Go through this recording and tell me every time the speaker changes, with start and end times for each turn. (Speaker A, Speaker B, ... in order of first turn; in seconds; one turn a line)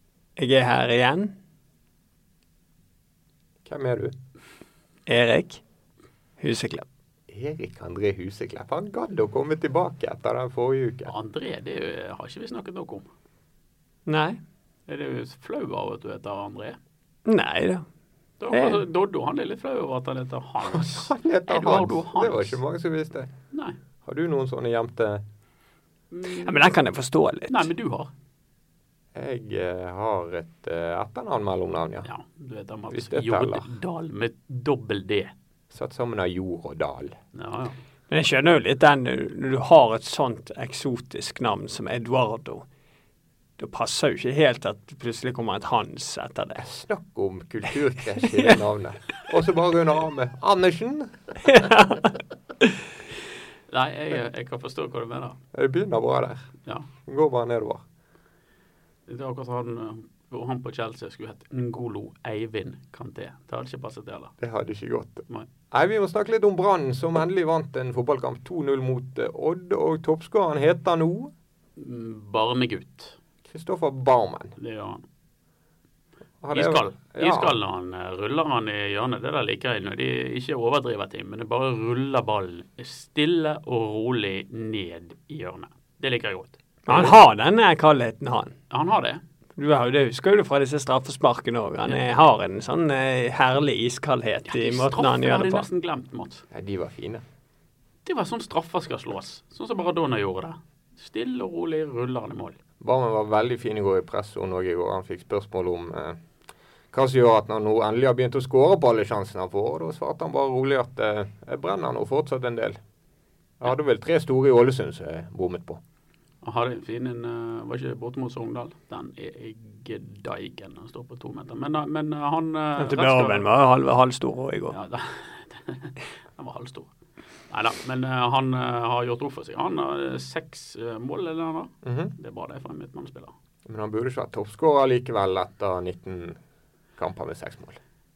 Speaker A: 0.4-1.3
Speaker B: 3.6-4.1
Speaker A: 5.1-5.6
Speaker A: 6.4-6.8
Speaker B: 7.3-11.1
Speaker C: 11.1-13.1
Speaker A: 14.1-14.4
Speaker C: 14.9-16.8
Speaker A: 17.2-17.8
Speaker C: 18.4-22.6
Speaker A: 18.5-18.8
Speaker B: 20.6-23.3
Speaker B: 24.0-25.2
Speaker C: 26.1-26.6
Speaker A: 26.3-27.7
Speaker C: 27.5-28.1
Speaker B: 29.1-32.1
Speaker C: 32.0-35.3
Speaker B: 32.9-33.7
Speaker B: 35.7-37.2
Speaker C: 37.3-37.8
Speaker A: 38.1-42.6
Speaker A: 43.6-46.6
Speaker B: 46.6-51.3
Speaker A: 48.2-48.6
Speaker A: 51.4-52.7
Speaker C: 53.7-55.4
Speaker B: 55.5-56.5
Speaker B: 57.0-57.8
Speaker C: 59.1-64.3
Speaker B: 64.4-71.3
Speaker C: 71.8-73.2
Speaker B: 73.5-74.5
Speaker C: 74.6-75.0
Speaker B: 76.4-77.5
Speaker C: 76.5-87.1
Speaker A: 86.9-88.5
Speaker C: 88.7-89.2
Speaker A: 89.6-95.7
Speaker C: 94.5-96.4
Speaker B: 96.5-97.2
Speaker C: 98.0-102.6
Speaker B: 102.8-106.2
Speaker B: 106.9-112.8
Speaker B: 113.6-115.8
Speaker C: 116.4-123.5
Speaker A: 122.8-124.8
Speaker C: 124.7-126.9
Speaker C: 127.5-133.3
Speaker B: 131.8-132.1
Speaker B: 133.7-136.4
Speaker B: 137.0-137.8